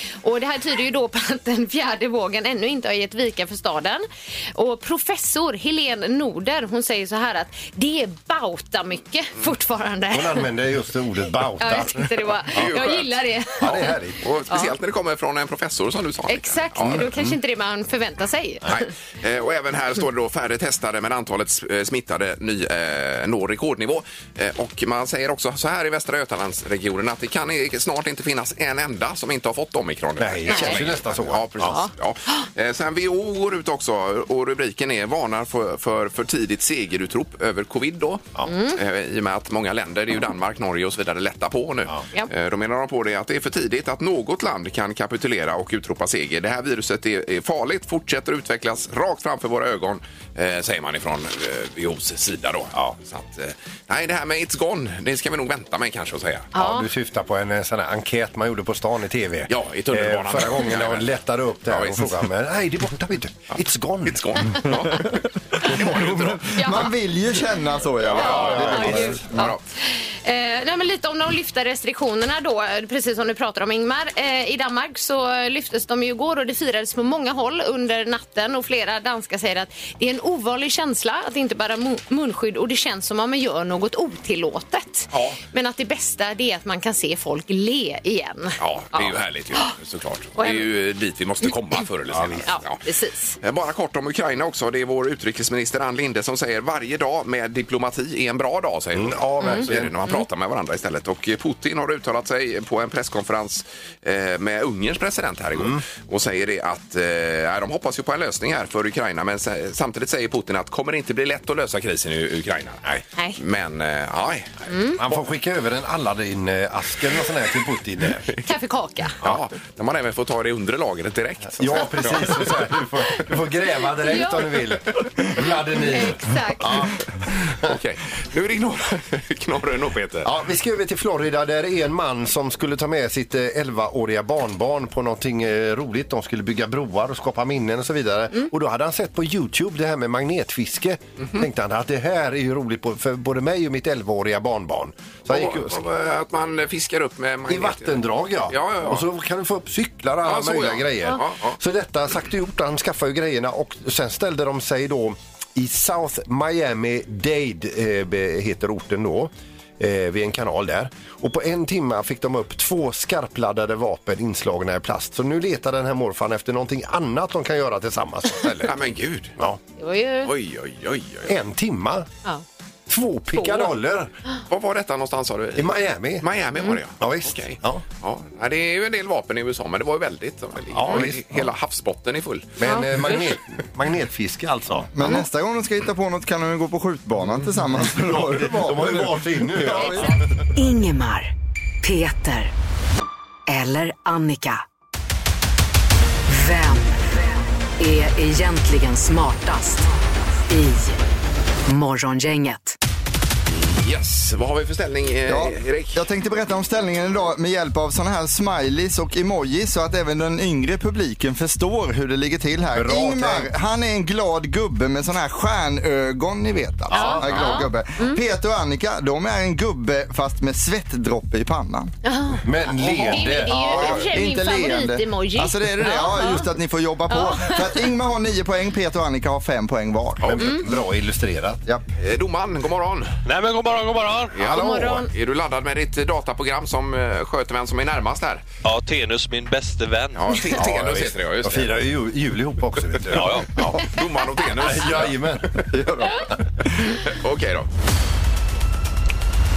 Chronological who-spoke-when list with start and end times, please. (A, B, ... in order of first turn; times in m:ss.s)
0:00.2-0:10.5 A
0:10.1-0:12.8 B
0:11.6-0:14.0 A
0:12.5-0:17.1 C
0:13.6-0:14.2 B
0:16.3-0:18.8 A
0:16.8-0:17.4 B
0:18.7-0:56.5 C
0:30.2-0:31.8 B
0:30.5-0:30.8 A
0:31.7-0:32.5 A
0:38.5-0:38.8 A
0:56.5-0:56.9 A
0:56.5-1:04.7 B
0:59.5-1:01.1 C
1:01.7-1:02.2 C
1:04.0-1:06.9 C
1:05.8-1:09.5 D
1:06.6-1:06.9 A
1:08.0-1:09.6 C
1:08.1-1:09.3 B
1:08.2-1:29.7 A
1:25.1-1:25.4 C
1:28.6-1:32.8 C
1:30.4-1:30.7 A
1:32.1-1:32.5 B
1:32.4-1:33.4 A
1:33.4-1:54.6 C
1:39.0-1:40.0 B
1:39.4-1:40.2 A
1:45.6-1:45.8 B
1:54.7-1:55.0 A
1:55.0-1:58.3 B
1:58.4-1:59.2 A
1:59.2-2:03.1 C
2:01.6-2:07.8 B
2:04.0-2:04.5 A
2:05.8-2:06.8 A
2:07.6-2:10.3 C
2:10.2-2:25.8 B
2:25.3-2:29.0 C
2:27.5-2:48.7 B
2:30.2-2:31.6 C
2:48.6-2:49.3 C
2:49.8-2:50.3 A
2:50.2-2:51.3 C
2:51.3-2:52.1 B
2:52.9-2:54.1 B
2:53.3-2:53.7 A
2:54.5-3:02.5 C
2:55.6-2:56.3 B
2:57.0-2:57.8 B
3:00.7-3:01.5 B
3:02.6-3:04.9 B
3:04.9-3:10.2 D
3:07.7-3:10.2 B
3:10.6-3:11.3 E
3:11.8-3:12.5 E
3:13.5-3:14.6 E
3:16.3-3:17.2 E
3:17.8-3:19.9 E
3:20.5-3:21.0 E
3:21.7-3:22.8 E
3:23.5-3:26.0 C
3:25.3-3:41.9 D
3:32.7-3:33.5 B
3:36.9-3:37.5 B
3:36.9-3:38.2 A
3:42.0-3:46.5 A
3:42.4-3:44.0 B
3:43.6-3:50.5 D
3:43.7-3:44.0 C
3:47.1-3:47.9 A
3:50.2-3:51.6 B
3:50.4-3:50.6 A
3:52.0-3:53.2 C
3:53.2-3:54.4 F
3:54.3-3:58.4 C
3:54.4-3:55.1 A
3:58.6-4:00.5 F
4:00.2-4:01.7 C
4:00.6-4:03.8 B
4:03.1-4:03.5 F
4:03.6-4:05.6 C
4:04.6-4:06.2 B
4:05.8-4:06.1 D
4:06.9-4:07.7 C